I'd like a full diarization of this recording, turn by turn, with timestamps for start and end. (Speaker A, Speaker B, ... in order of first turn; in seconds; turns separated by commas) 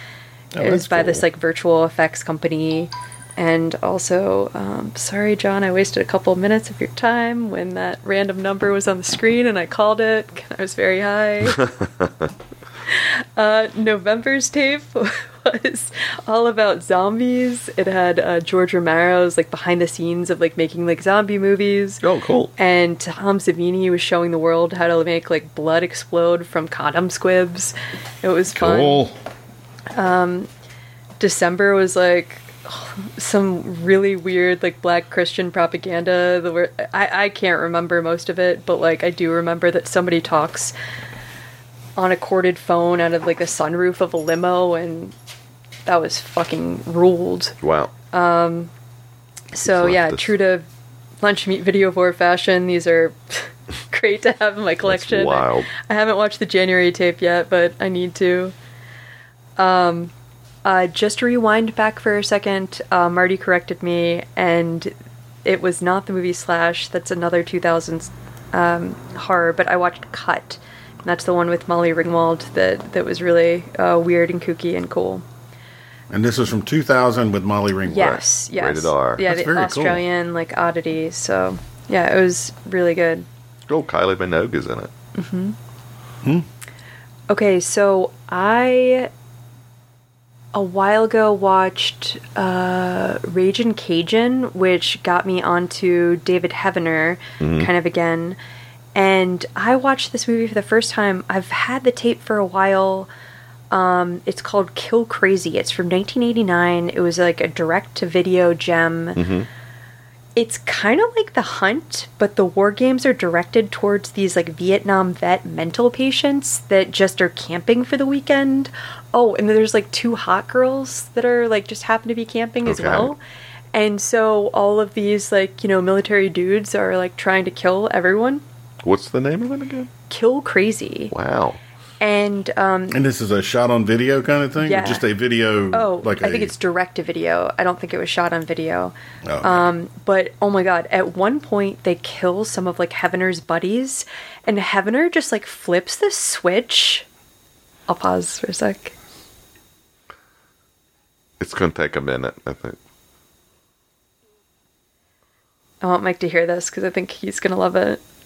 Speaker A: 0.5-1.2, Speaker B: 0.6-11.7, Speaker C: 11.6-12.0, Speaker B: 12.9-22.0, Speaker C: 22.0-22.5, Speaker B: 22.6-29.0, Speaker A: 28.5-29.1, Speaker B: 29.9-30.5, Speaker B: 31.2-40.7, Speaker B: 42.0-45.1, Speaker B: 45.9-47.6, Speaker C: 47.6-47.9, Speaker B: 48.1-48.7, Speaker B: 49.5-50.7, Speaker C: 49.6-50.3, Speaker B: 51.2-58.5, Speaker C: 54.9-55.7, Speaker B: 59.6-60.1, Speaker B: 60.6-64.9, Speaker B: 65.5-75.2, Speaker A: 76.1-78.2, Speaker B: 77.9-83.3, Speaker C: 78.0-79.2, Speaker A: 79.2-80.0, Speaker C: 83.7-84.9, Speaker B: 85.2-85.6, Speaker B: 87.3-89.1, Speaker B: 90.5-98.4, Speaker C: 97.4-97.7, Speaker B: 99.0-103.1, Speaker B: 103.7-109.2, Speaker C: 109.2-109.5, Speaker B: 110.4-123.2, Speaker C: 122.7-123.1, Speaker B: 123.7-128.4, Speaker C: 128.8-129.9, Speaker B: 130.1-131.1, Speaker C: 131.1-131.6, Speaker B: 132.0-133.0, Speaker A: 132.9-136.5, Speaker B: 134.6-135.1, Speaker B: 135.7-147.1, Speaker A: 139.2-139.7, Speaker B: 147.9-148.9, Speaker C: 151.4-152.8, Speaker B: 155.8-158.0